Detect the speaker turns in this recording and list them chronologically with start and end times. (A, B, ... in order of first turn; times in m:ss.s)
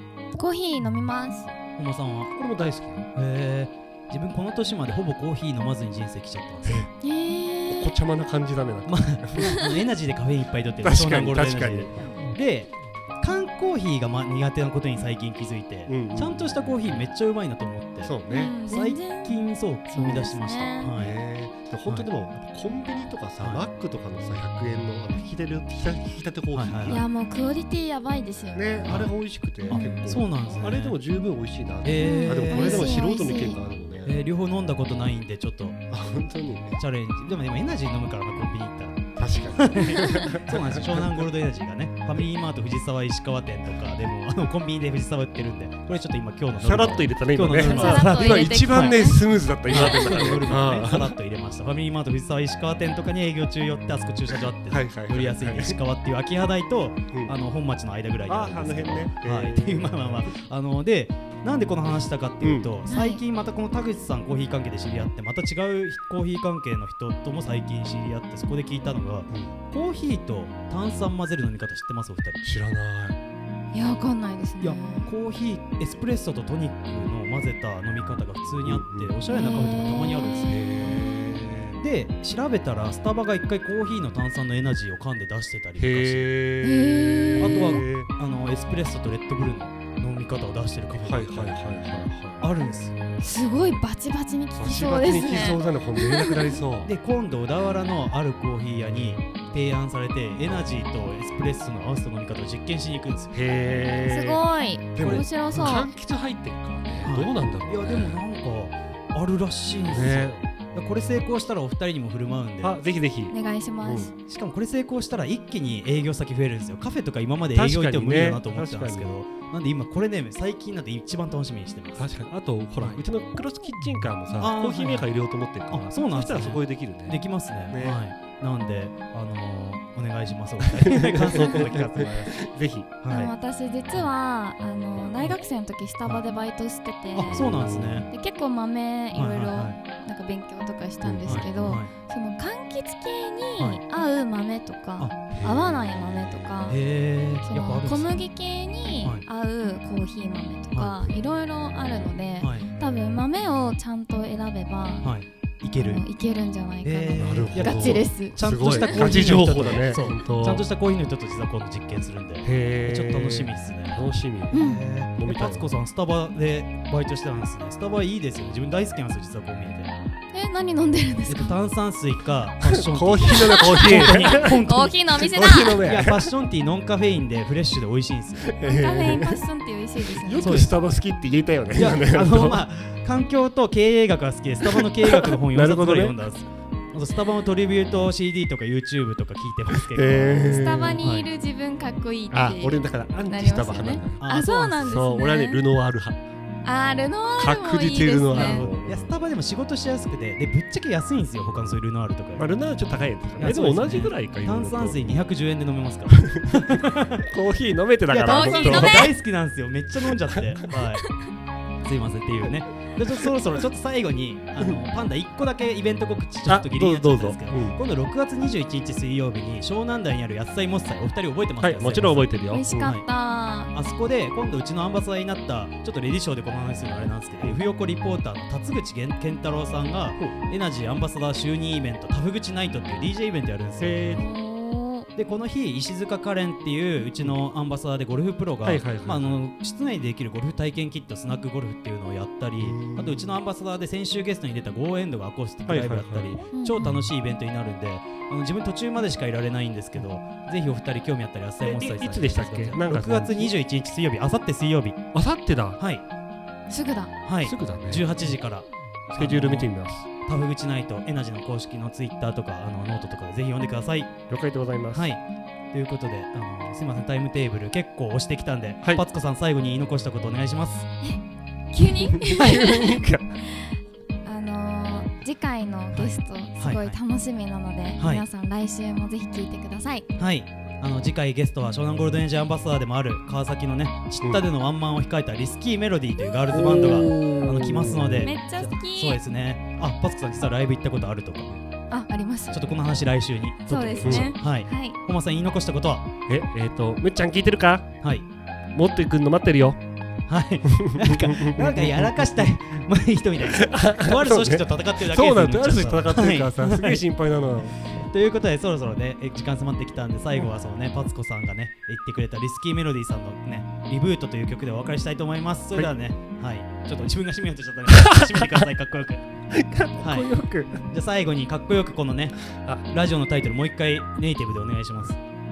0:00.4-0:01.5 A
0:01.8-0:02.3 B
0:02.3-0:03.1 C
0:03.2-0:06.9 B
0:06.6-0:06.9 C
0:07.0-0:08.0 A
0:07.7-0:09.5 C
0:08.9-0:21.1 B
0:10.8-0:12.2 C
0:15.9-0:16.5 C
0:18.0-0:18.6 C
0:18.3-0:19.4 A
0:19.9-0:20.9 A
0:20.9-0:27.1 C
0:23.4-0:23.7 B
0:26.5-0:27.0 B
0:26.8-0:29.1 A
0:28.5-0:34.1 C
0:28.8-0:29.1 B
0:29.7-0:31.0 B
0:29.7-0:30.1 A
0:31.8-0:33.0 B
0:32.0-0:33.6 A
0:34.0-0:35.8 B
0:35.9-0:36.8 C
0:36.8-0:49.0 B
0:39.2-0:41.2 C
0:46.6-0:51.2 C
0:47.5-0:49.2 A
0:49.7-1:12.4 B
0:54.7-0:55.8 C
0:58.3-1:00.3 C
1:02.4-1:02.7 C
1:02.9-1:03.2 A
1:09.3-1:09.6 C
1:12.4-1:13.2 C
1:13.7-1:15.1 A
1:14.6-1:20.5 B
1:18.6-1:21.8 C
1:19.3-1:21.4 A
1:21.8-1:26.3 B
1:25.8-1:28.1 C
1:26.6-1:27.8 A
1:27.4-1:31.6 B
1:31.0-1:32.5 C
1:32.4-1:33.0 B
1:33.2-1:36.5 A
1:34.6-1:36.9 C
1:36.8-1:43.4 B
1:43.3-1:44.4 C
1:44.0-1:45.9 A
1:45.0-1:48.2 C
1:45.0-1:45.7 B
1:47.0-1:52.8 B
1:49.8-1:50.5 C
1:52.6-1:54.1 C
1:53.3-1:54.1 A
1:54.3-2:02.0 B
1:57.6-1:59.2 C
2:02.0-2:07.2 C
2:04.4-2:05.1 B
2:05.7-2:12.3 B
2:07.7-2:08.0 C
2:10.8-2:12.9 C
2:13.0-2:13.3 B
2:13.1-2:17.5 A
2:17.1-2:18.1 B
2:17.3-2:18.1 C
2:18.1-2:26.8 A
2:19.1-2:19.8 B
2:21.0-2:21.5 C
2:21.2-2:21.9 B
2:25.3-2:26.8 C
2:26.7-2:28.3 B
2:27.4-2:35.1 A
2:30.7-2:31.0 B
2:32.4-2:32.7 B
2:35.0-2:36.0 B
2:35.8-2:39.2 A
2:36.8-2:49.9 B
2:37.2-2:40.6 C
2:42.4-2:44.6 C
2:44.5-2:44.8 A
2:45.1-2:45.7 C
2:50.3-2:51.6 A
2:51.3-2:55.0 B
2:52.6-2:54.6 C
2:53.3-2:55.9 A
2:55.2-2:56.3 C
2:55.8-2:58.5 B
2:58.4-2:59.4 C
2:58.6-3:00.6 A
3:00.1-3:02.6 C
3:00.4-3:00.7 B
3:01.8-3:11.3 B
3:04.7-3:06.2 C
3:09.8-3:11.0 C
3:10.4-3:15.6 A
3:12.3-3:14.2 C
3:14.2-3:15.0 B
3:14.8-3:16.2 C
3:16.6-3:18.7 A
3:17.4-3:19.1 C
3:18.3-3:22.5 B
3:22.4-3:25.2 C
3:23.4-3:27.3 B
3:26.1-3:29.1 C
3:28.1-3:31.1 B
3:28.2-3:29.1 A
3:31.8-3:43.0 B
3:36.5-3:37.8 C
3:41.6-3:42.9 C
3:42.5-3:43.7 A
3:43.7-3:54.0 B
3:53.8-3:54.3 C
3:54.1-3:55.1 A
3:55.2-4:15.0 B
3:58.6-3:59.4 C
4:02.6-4:03.3 C
4:05.7-4:07.0 C
4:06.5-4:06.8 A
4:11.6-4:13.5 C
4:15.1-4:15.8 C
4:15.8-4:16.0 B
4:16.7-4:17.1 A
4:17.2-4:24.2 B
4:17.4-4:18.1 C
4:19.1-4:20.1 C
4:24.3-4:25.1 C
4:24.9-4:25.2 B
4:25.7-4:30.9 B
4:31.0-4:33.7 A
4:32.1-4:33.4 C
4:34.2-4:40.1 A
4:35.9-4:37.0 B
4:38.0-4:38.2 B
4:40.2-4:51.5 B
4:46.5-4:48.3 C
4:48.2-4:49.2 A
4:51.9-4:52.6 A
4:52.5-4:56.1 B
4:53.7-4:55.0 A
4:54.0-4:54.4 C
4:56.3-4:58.0 C
4:58.7-4:59.8 C
5:00.3-5:07.0 B
5:00.7-5:02.5 C
5:03.5-5:07.8 C
5:07.9-5:19.2 B
5:18.0-5:18.4 C
5:19.5-5:20.8 C
5:20.0-5:20.3 B
5:20.9-5:25.2 B
5:22.6-5:22.8 C